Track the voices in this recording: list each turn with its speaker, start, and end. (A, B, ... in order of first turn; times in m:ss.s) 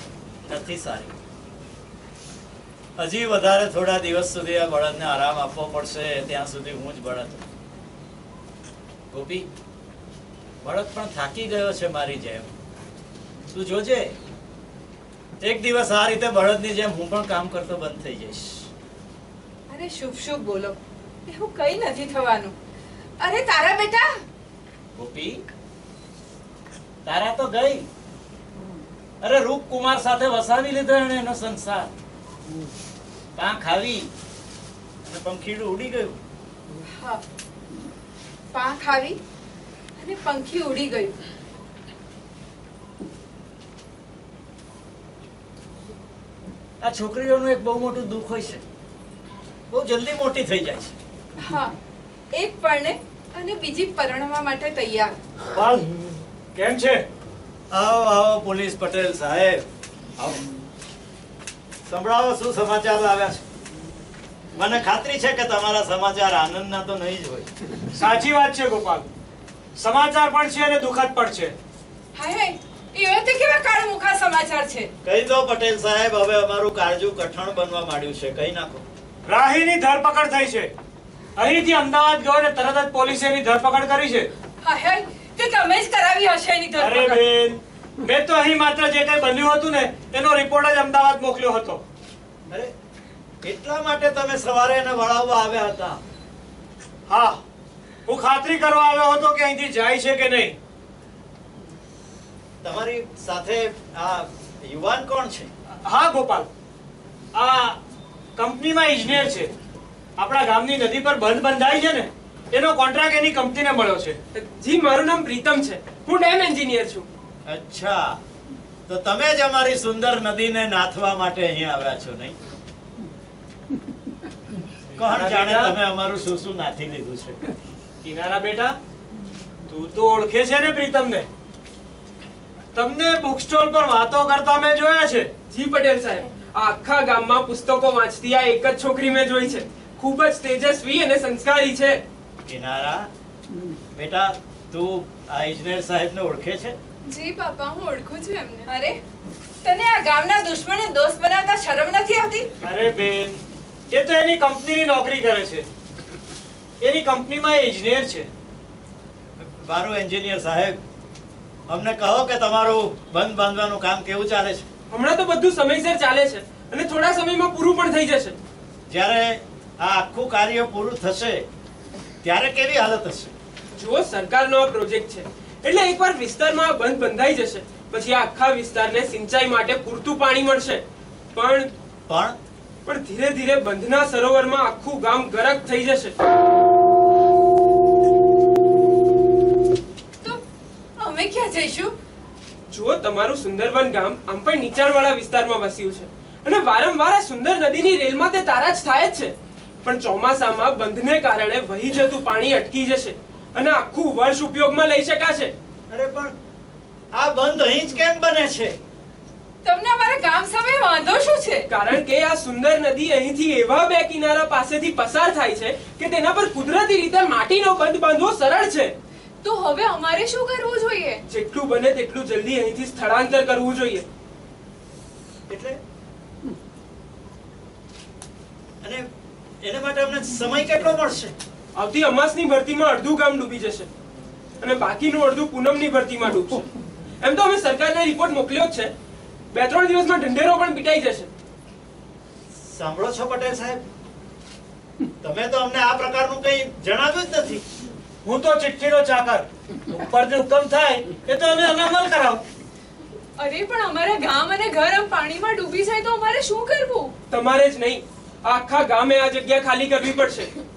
0:00.4-0:01.1 A
0:03.0-0:07.4 A
0:09.1-0:09.5 A
0:10.6-0:12.5 A
0:13.5-0:14.1 A
0:15.4-0:18.6 A
0:19.7-0:22.5 B
0:23.2-0:24.1 B
0:25.0-0:25.4 A
0:27.0-0:27.9 A
0:29.2-0:31.9 A
0:33.4-0:34.1 A
0:35.0-0:36.2 A
0:36.9-0:37.2 B
0:38.5-0:39.2 B
0:40.0-0:41.2 B
0:46.8-0:48.6 A
0:49.7-0:51.0 A
0:51.4-0:51.7 B
0:52.3-0:55.1 B
0:55.5-0:55.9 C
0:56.5-0:57.0 C
0:57.7-0:59.6 A
1:01.9-1:03.4 A
1:04.5-1:07.5 A
1:07.9-1:09.1 C
1:09.8-1:11.5 C
1:12.1-1:14.9 B
1:15.0-1:18.8 A
1:19.2-1:20.7 C
1:21.4-1:24.3 C
1:24.6-1:27.2 B
1:26.8-1:31.8 C
1:33.4-1:36.0 A
1:37.1-1:37.4 C
1:38.0-1:40.6 C
1:42.6-1:45.5 A
1:45.8-1:46.5 C
1:47.3-1:47.8 C
1:48.4-1:49.5 C
1:50.2-1:54.2 C
1:54.3-1:57.1 D
1:57.4-1:58.2 A
1:58.9-2:02.3 A
2:04.9-2:05.8 C
2:05.0-2:07.5 A
2:08.0-2:08.8 C
2:09.7-2:11.3 C
2:12.7-2:15.3 C
2:15.5-2:22.0 D
2:22.4-2:23.1 A
2:23.9-2:26.8 A
2:27.1-2:29.0 B
2:29.6-2:32.5 B
2:32.6-2:35.6 C
2:36.8-2:38.3 C
2:39.4-2:40.8 A
2:41.7-2:44.6 A
2:44.9-2:48.4 D
2:48.9-2:51.4 A
2:52.2-2:53.3 A
2:53.7-3:00.8 D
3:01.3-3:01.7 D
3:02.1-3:02.4 A
3:02.8-3:06.1 D
3:11.0-3:11.9 B
3:12.7-3:25.5 D
3:25.9-3:26.3 A
3:27.1-3:28.8 A
3:29.6-3:31.6 B
3:31.7-3:38.9 D
3:39.4-3:41.2 B
3:41.3-3:44.0 D
3:45.5-3:45.8 A
3:49.6-3:51.3 A
3:51.7-3:53.9 D
3:54.6-3:56.6 D
3:57.2-3:58.9 D
3:59.5-4:01.3 D
4:02.6-4:03.8 A
4:05.2-4:07.6 A
4:08.2-4:12.4 C
4:13.4-4:17.1 B
4:17.3-4:20.5 D